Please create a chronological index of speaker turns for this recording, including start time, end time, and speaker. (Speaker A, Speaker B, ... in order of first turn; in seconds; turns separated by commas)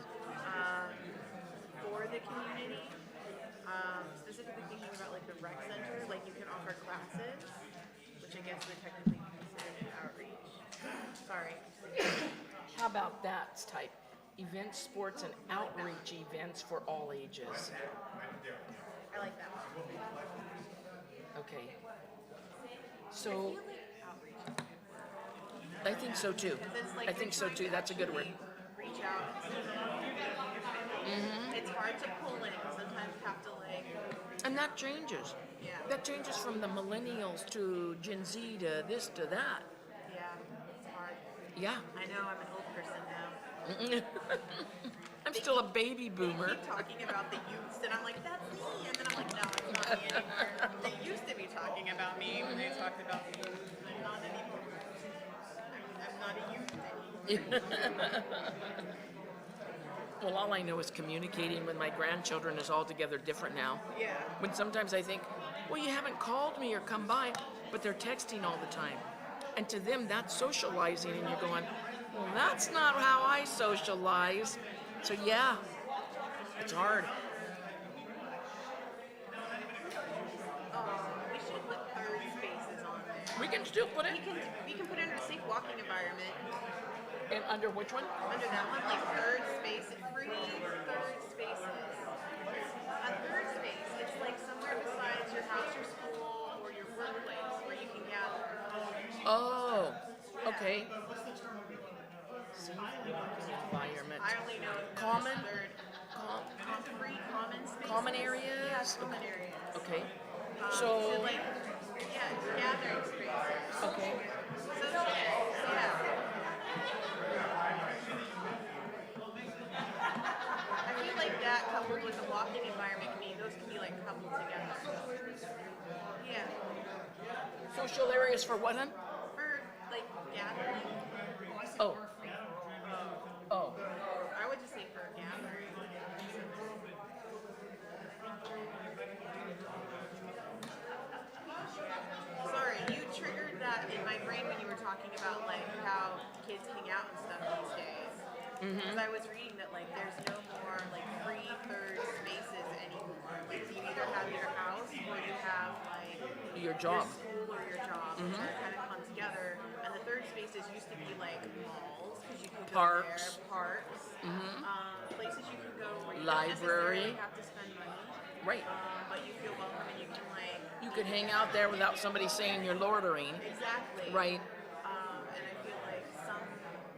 Speaker A: 0.4-1.2, Speaker A: 1.8-3.0, Speaker A: 3.6-7.6, Speaker A: 8.2-10.6, Speaker A: 11.2-11.7, Speaker B: 12.7-17.9, Speaker A: 15.1-16.1, Speaker A: 19.1-20.0, Speaker B: 21.4-21.8, Speaker B: 23.1-23.6, Speaker A: 23.2-25.1, Speaker B: 25.8-28.3, Speaker A: 25.8-33.9, Speaker B: 31.0-31.6, Speaker B: 34.4-39.7, Speaker A: 35.6-35.9, Speaker A: 40.1-41.2, Speaker B: 41.6-41.9, Speaker A: 41.9-43.4, Speaker B: 43.6-46.8, Speaker A: 45.3-45.6, Speaker A: 46.2-57.8, Speaker B: 49.7-50.9, Speaker B: 52.3-52.9, Speaker B: 57.3-58.6, Speaker B: 60.2-63.8, Speaker A: 63.9-64.4, Speaker B: 64.4-75.6, Speaker B: 76.6-77.1, Speaker A: 80.7-86.4, Speaker B: 83.3-84.2, Speaker B: 87.3-88.1, Speaker A: 88.3-92.1, Speaker A: 93.0-98.6, Speaker B: 99.2-100.9, Speaker A: 100.4-100.9, Speaker B: 102.5-105.5, Speaker A: 104.2-105.8, Speaker B: 106.1-106.5, Speaker A: 106.6-109.9, Speaker B: 107.8-109.2, Speaker B: 109.7-110.1, Speaker A: 110.6-111.5, Speaker B: 110.7-111.4, Speaker A: 112.0-116.1, Speaker B: 113.8-114.2, Speaker A: 120.8-125.0, Speaker A: 126.2-126.6, Speaker B: 127.7-129.0, Speaker A: 129.3-131.0, Speaker B: 131.8-132.1, Speaker A: 132.8-133.3, Speaker B: 133.5-133.8, Speaker A: 134.1-136.9, Speaker A: 138.5-139.2, Speaker A: 141.8-156.2, Speaker B: 148.6-149.1, Speaker B: 156.5-157.2, Speaker A: 156.9-171.8, Speaker B: 158.2-158.5, Speaker B: 162.7-163.4, Speaker B: 164.2-164.7, Speaker B: 166.1-167.2, Speaker B: 168.4-168.7, Speaker B: 170.8-173.4, Speaker A: 173.4-174.3, Speaker B: 174.1-174.4, Speaker A: 174.8-176.8